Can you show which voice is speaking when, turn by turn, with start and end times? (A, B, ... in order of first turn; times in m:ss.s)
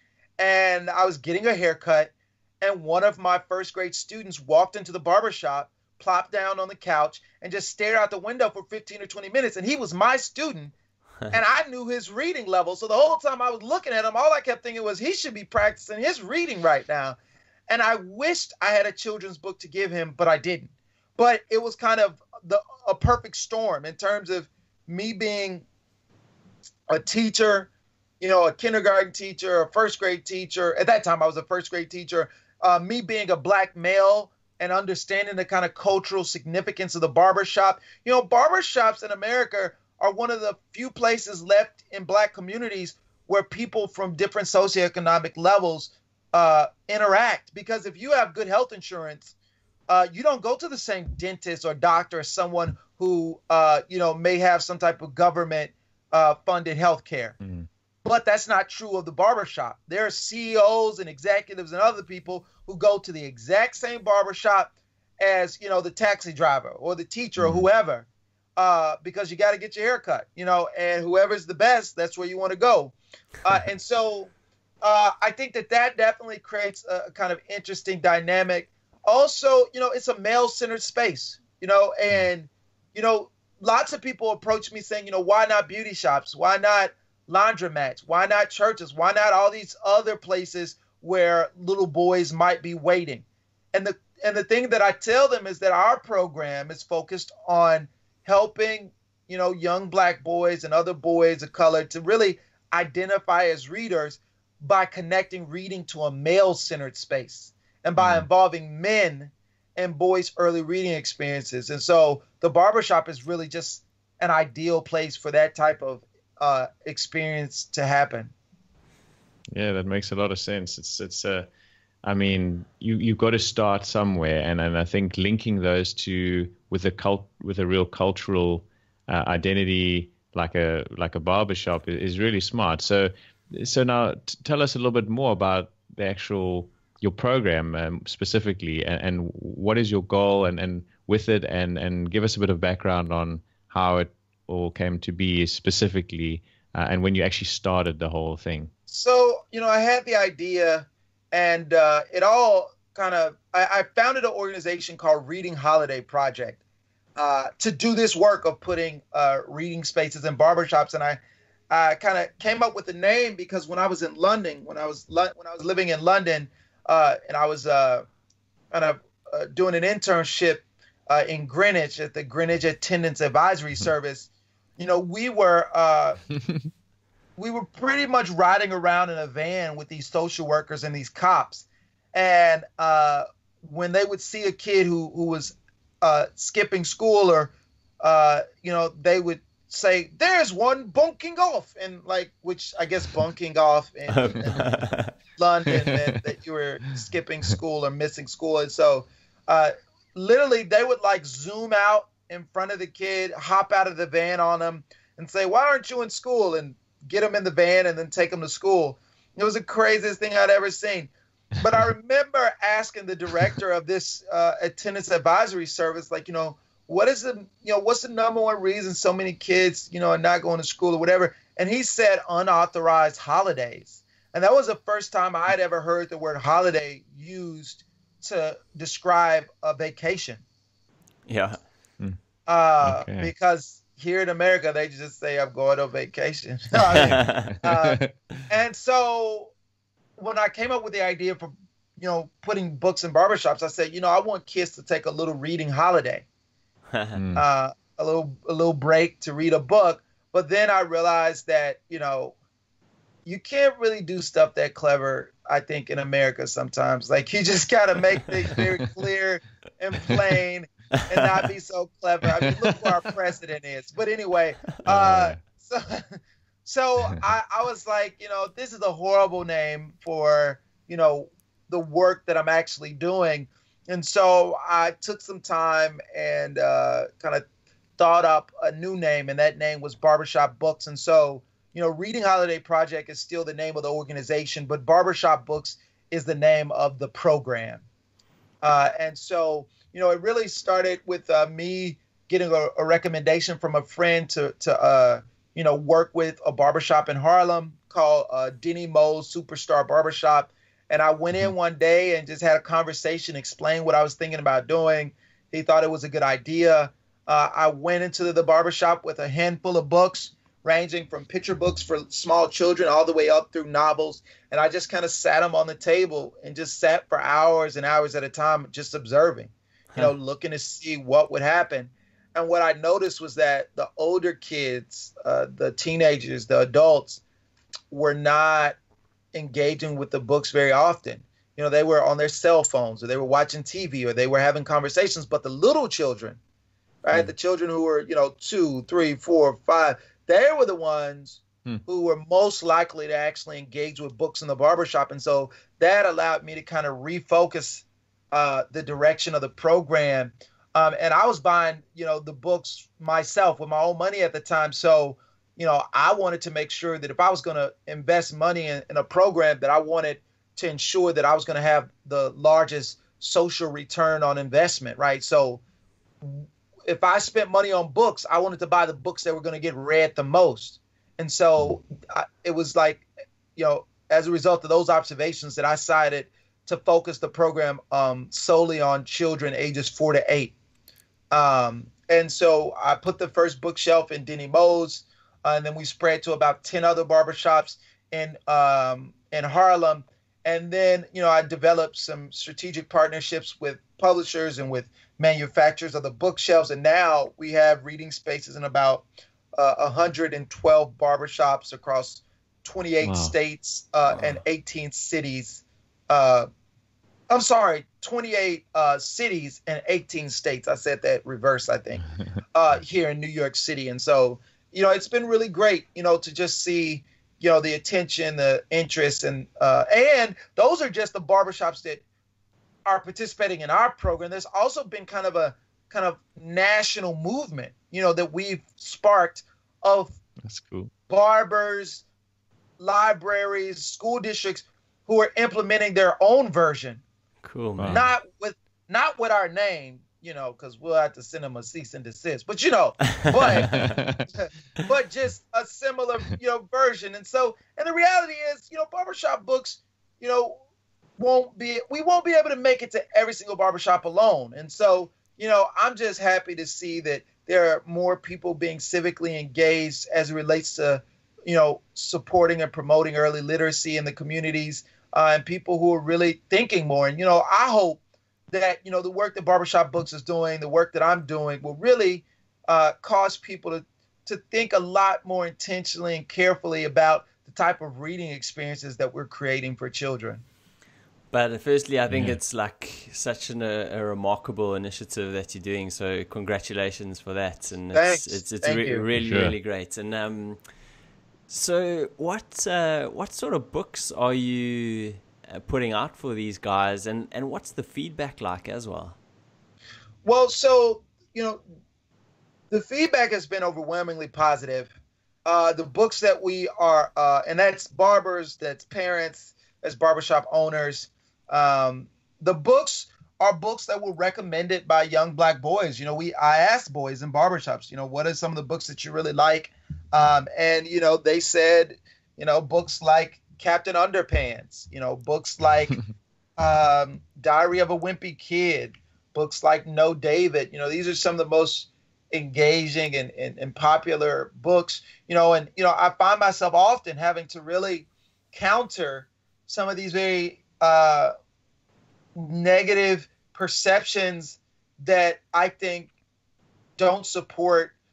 0:00.4-0:10.7 A
0:11.3-0:17.2 A
0:17.7-0:25.6 A
0:26.9-0:27.7 A
0:28.2-0:49.3 A
0:49.9-0:57.4 A
0:57.4-0:57.7 B
0:58.0-1:58.3 A
1:07.4-1:07.7 B
1:48.0-1:48.3 B
1:59.5-2:01.5 B
2:02.0-2:28.7 B
2:28.9-2:36.6 A
2:37.2-2:41.2 A
2:41.7-2:48.0 A
2:48.7-2:56.2 A
2:56.4-2:56.7 B
2:57.4-3:14.6 A
3:14.1-3:15.1 C
3:15.4-3:50.4 A
3:15.7-3:16.2 B
3:51.3-3:51.6 C
3:52.5-3:59.5 A
3:52.8-3:53.3 B
3:56.9-3:58.2 B
3:57.0-3:57.6 C
4:00.2-4:06.2 A
4:06.9-4:07.2 C
4:07.2-4:07.4 B
4:07.4-4:12.4 A
4:13.3-4:26.1 A
4:24.8-4:25.4 B
4:26.6-4:37.4 A
4:38.0-4:47.8 A
4:48.6-5:27.2 A
5:27.9-5:28.8 A
5:29.3-5:36.4 A
5:37.0-6:05.6 A
6:06.2-6:13.0 A
6:13.6-6:20.5 A
6:21.3-6:39.0 A
6:39.6-6:46.5 A
6:43.0-6:43.3 B
6:44.1-6:44.4 C
6:47.3-7:02.0 A
7:02.9-7:10.2 A
7:10.4-7:10.9 B
7:11.1-7:12.0 A
7:12.8-7:17.0 A
7:17.4-7:18.0 C
7:17.8-7:18.0 B
7:17.9-7:30.6 A
7:23.1-7:23.6 C
7:23.6-7:24.2 B
7:31.2-8:00.4 A
8:01.3-8:10.6 C
8:02.1-8:02.4 B
8:07.9-8:09.0 A
8:09.2-8:09.5 B
8:11.5-8:19.2 C
8:20.2-8:21.6 A
8:22.7-8:24.9 A
8:25.4-8:46.0 A
8:46.6-9:01.3 A
9:02.4-9:06.1 A
9:07.0-9:07.9 A